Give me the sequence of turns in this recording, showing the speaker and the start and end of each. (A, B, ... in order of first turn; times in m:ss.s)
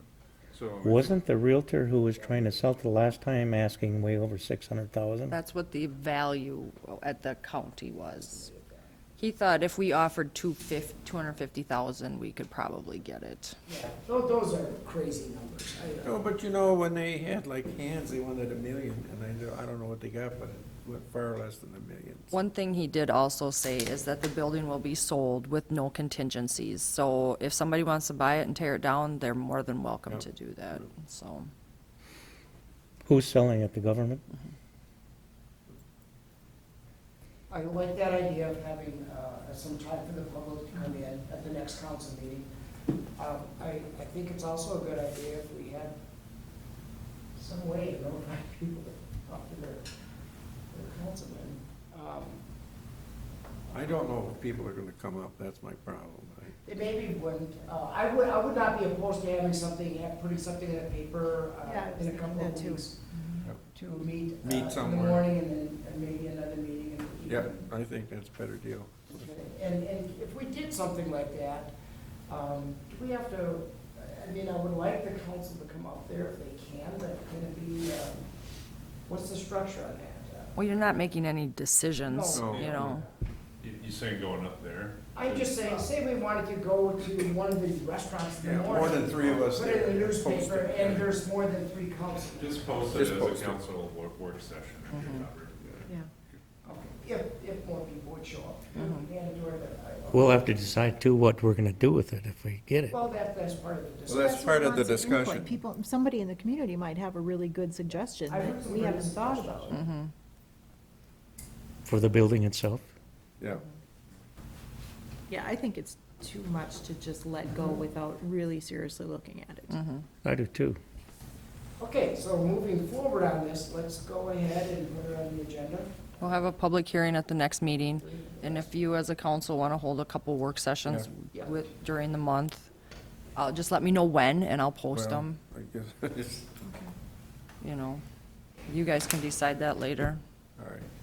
0:00.5-0:01.2 A
0:00.8-0:05.4 B
0:05.3-0:08.5 C
0:08.3-0:08.7 D
0:09.2-0:13.6 C
0:13.7-0:16.3 D
0:16.0-0:22.3 E
0:22.3-0:31.5 C
0:33.0-0:34.2 B
0:37.5-0:42.5 D
0:43.2-0:45.9 D
0:47.4-0:49.8 D
0:50.7-0:52.4 D
0:53.7-0:56.6 E
0:56.6-1:03.0 D
1:01.6-1:02.9 F
1:03.7-1:07.7 D
1:04.4-1:05.3 E
1:07.3-1:09.1 E
1:09.1-1:11.7 D
1:12.3-1:18.3 D
1:19.1-1:21.0 D
1:20.6-1:23.0 C
1:22.1-1:22.5 D
1:22.3-1:23.0 E
1:22.5-1:23.0 A
1:23.6-1:25.6 A
1:25.1-1:32.7 D
1:28.4-1:31.1 E
1:32.3-1:35.6 A
1:32.9-1:33.6 E
1:34.9-1:35.2 C
1:36.6-1:40.5 D
1:38.7-1:39.1 C
1:40.1-1:43.0 B
1:42.9-1:44.8 D
1:44.1-1:45.6 E
1:44.3-1:49.8 F
1:48.3-1:49.8 D
1:49.7-1:50.1 C
1:51.8-1:52.9 B
1:55.3-1:59.8 F
1:59.7-2:00.0 C
2:00.2-2:00.8 B
2:01.8-2:06.3 D
2:06.2-2:12.7 C
2:08.0-2:08.7 D
2:11.3-2:11.6 D
2:13.4-2:15.4 C
2:14.9-2:16.5 E
2:17.6-2:18.0 C
2:18.7-2:20.2 C
2:20.6-2:20.9 E